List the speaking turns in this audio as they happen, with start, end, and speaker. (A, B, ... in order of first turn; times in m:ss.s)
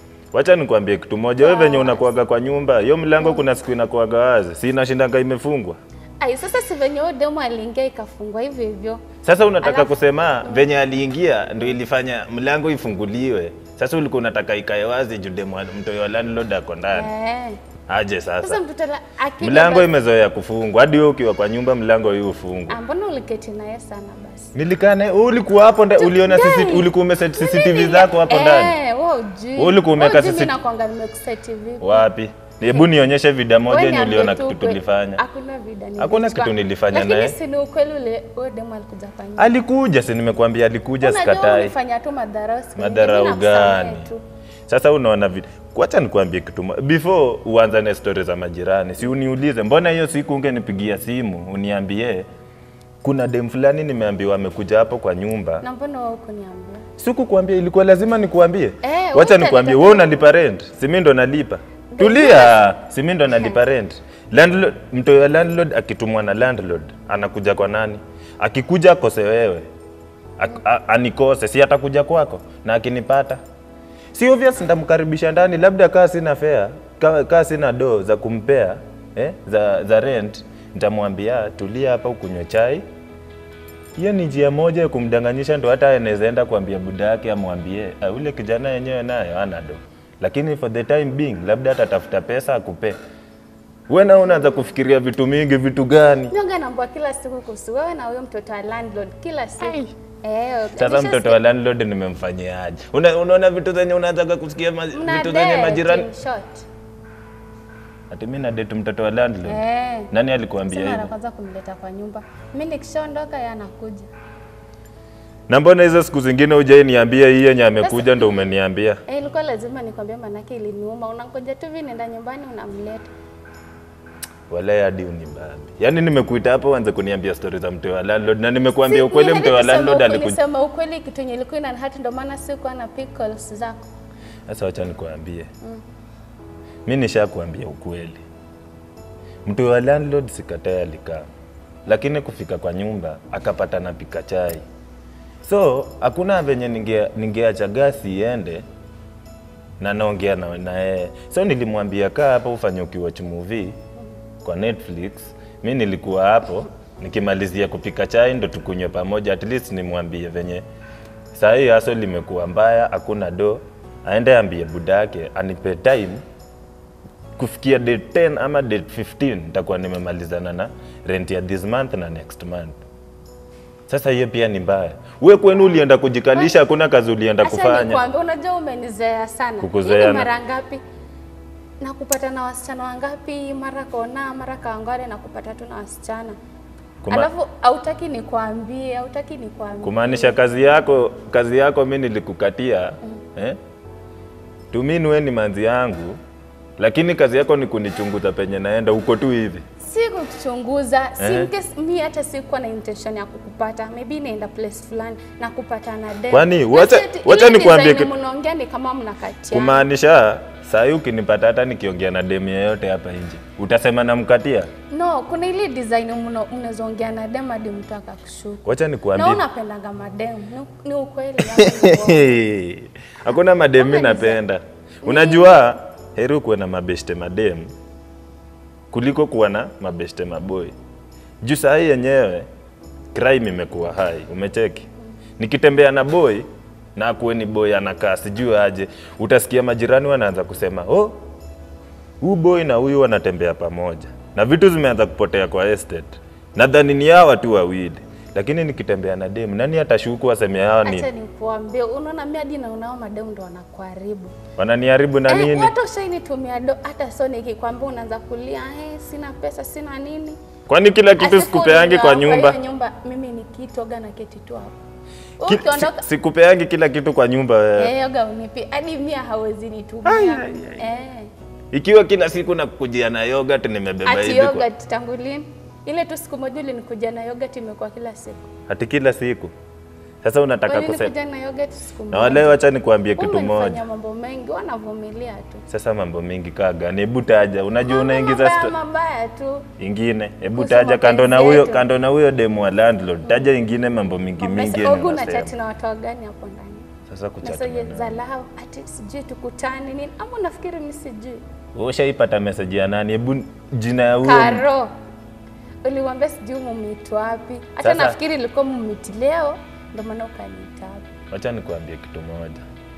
0:00.3-0:05.8 A
0:01.4-0:02.1 B
0:03.2-0:03.4 B
0:06.2-0:09.0 B
0:09.2-0:17.1 A
0:09.6-0:10.7 B
0:16.9-0:17.6 B
0:17.9-0:18.6 A
0:18.4-0:19.9 B
0:19.4-0:22.8 A
0:22.7-0:24.5 B
0:24.5-0:28.8 A
0:26.0-0:32.0 B
0:29.6-0:30.6 A
0:31.8-0:35.2 A
0:33.7-0:39.6 B
0:36.0-0:37.4 A
0:39.4-0:41.7 A
0:41.0-0:44.2 B
0:42.8-0:44.1 A
0:44.7-0:52.2 A
0:53.0-0:55.6 A
0:55.6-0:56.8 B
0:57.0-1:09.7 A
0:58.8-1:00.2 B
1:01.9-1:02.7 B
1:10.4-1:13.4 A
1:14.1-1:22.8 A
1:24.0-1:33.0 A
1:33.9-1:36.3 A
1:36.3-1:41.4 B
1:40.8-1:46.1 A
1:44.9-1:46.6 B
1:48.1-1:51.1 A
1:49.4-1:50.1 B
1:50.6-1:54.1 B
1:55.5-1:59.0 A
1:57.8-1:58.5 B
1:59.1-2:03.1 B
2:04.5-2:10.4 A
2:08.8-2:13.9 B
2:14.5-2:15.5 A
2:16.8-2:18.2 A
2:19.4-2:21.2 A
2:21.8-2:24.6 A
2:25.4-2:28.6 A
2:29.8-2:33.8 A
2:34.4-2:40.6 A
2:41.3-2:46.2 A
2:47.4-2:52.8 A
2:53.9-2:58.0 A
2:57.4-3:00.8 B
2:59.6-3:00.3 A
3:01.8-3:06.4 B
3:07.0-3:07.3 A
3:07.1-3:10.4 B
3:09.8-3:13.6 A
3:14.7-3:16.2 A
3:16.8-3:19.6 A
3:19.8-3:29.8 B
3:21.2-3:21.5 A
3:26.3-3:28.1 A
3:29.5-3:34.7 A
3:34.9-3:38.6 B
3:38.6-3:39.4 A
3:39.1-3:42.4 B
3:41.4-3:47.7 A
3:43.8-3:44.4 B
3:45.0-3:45.6 B
3:48.9-3:50.7 A
3:51.4-3:52.5 A
3:53.1-3:54.8 A
3:55.4-4:01.2 A
4:02.2-4:11.1 A
4:10.8-4:14.4 B
4:14.6-4:15.7 A
4:15.3-4:20.4 B
4:20.7-4:22.6 A
4:21.1-4:24.7 B
4:25.4-4:26.0 B
4:25.4-4:27.9 A
4:27.8-4:31.3 B
4:30.0-4:30.8 A
4:31.7-4:34.6 A
4:34.0-4:38.5 B
4:38.7-4:39.5 A
4:40.2-4:41.1 A
4:40.7-4:42.6 B
4:42.1-4:43.8 A
4:43.2-4:45.6 B
4:45.7-4:48.7 A
4:47.8-4:49.6 B
4:49.8-4:55.5 A
4:50.6-4:51.8 B
4:53.2-4:53.5 B
4:54.4-4:56.9 B
4:57.1-4:58.2 A
4:57.4-5:01.4 B
5:01.7-5:04.7 A
5:04.2-5:04.9 B
5:05.8-5:11.1 B
5:07.8-5:08.2 A
5:11.3-5:12.6 A